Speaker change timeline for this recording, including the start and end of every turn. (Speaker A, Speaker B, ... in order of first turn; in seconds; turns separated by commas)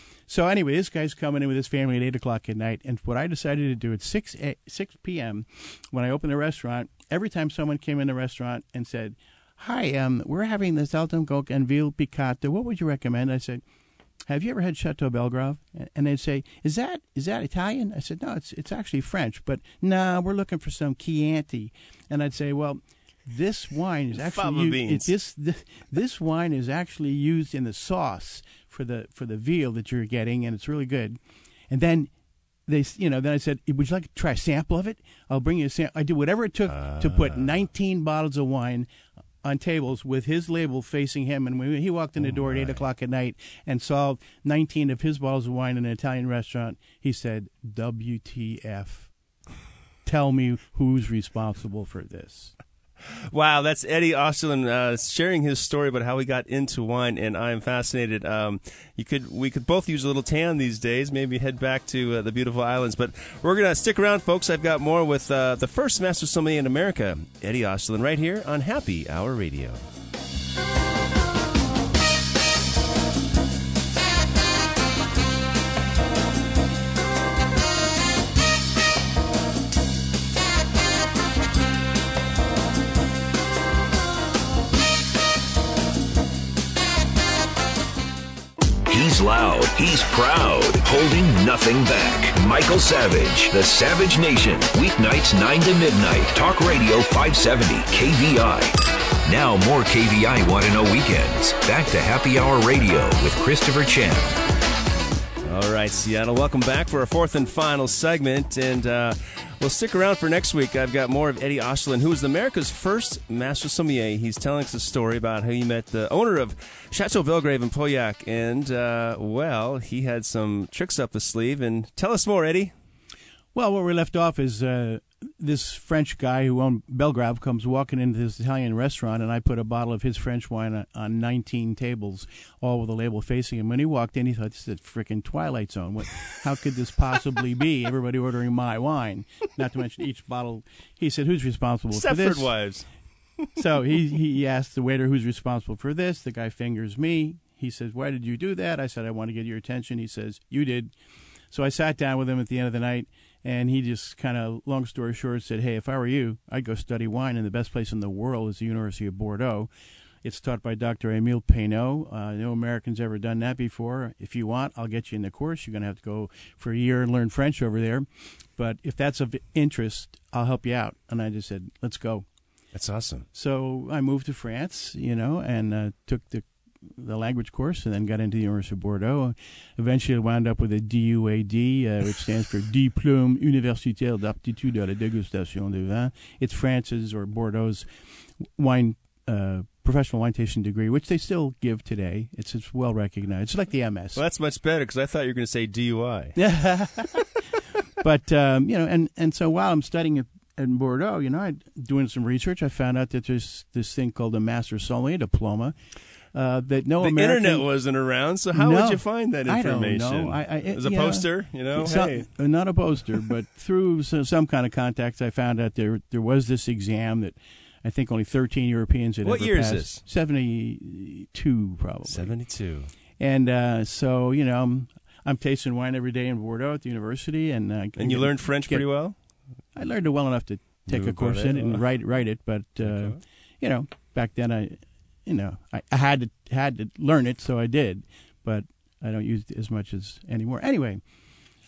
Speaker A: 0.3-13.6, Speaker A: 14.3-31.2, Speaker B: 24.1-25.1, Speaker A: 31.7-32.1, Speaker A: 32.7-38.9, Speaker B: 36.7-37.5, Speaker A: 39.4-49.1, Speaker B: 42.2-42.9, Speaker A: 50.0-52.5, Speaker B: 53.3-69.8, Speaker C: 88.9-98.7, Speaker C: 99.2-104.4, Speaker B: 105.4-122.7, Speaker A: 123.5-142.5, Speaker B: 141.9-142.9, Speaker A: 143.6-150.9, Speaker A: 151.5-159.7, Speaker A: 160.2-172.2, Speaker B: 172.7-173.2, Speaker A: 173.3-187.9, Speaker A: 188.5-194.2, Speaker B: 194.1-196.3, Speaker A: 196.3-197.4, Speaker A: 198.0-205.7, Speaker A: 206.3-207.6, Speaker B: 207.0-212.3, Speaker A: 208.5-222.3, Speaker B: 219.2-220.0, Speaker B: 222.1-222.9, Speaker A: 223.2-228.8, Speaker B: 228.0-229.2, Speaker A: 229.8-241.0, Speaker B: 230.9-231.8, Speaker B: 232.8-233.2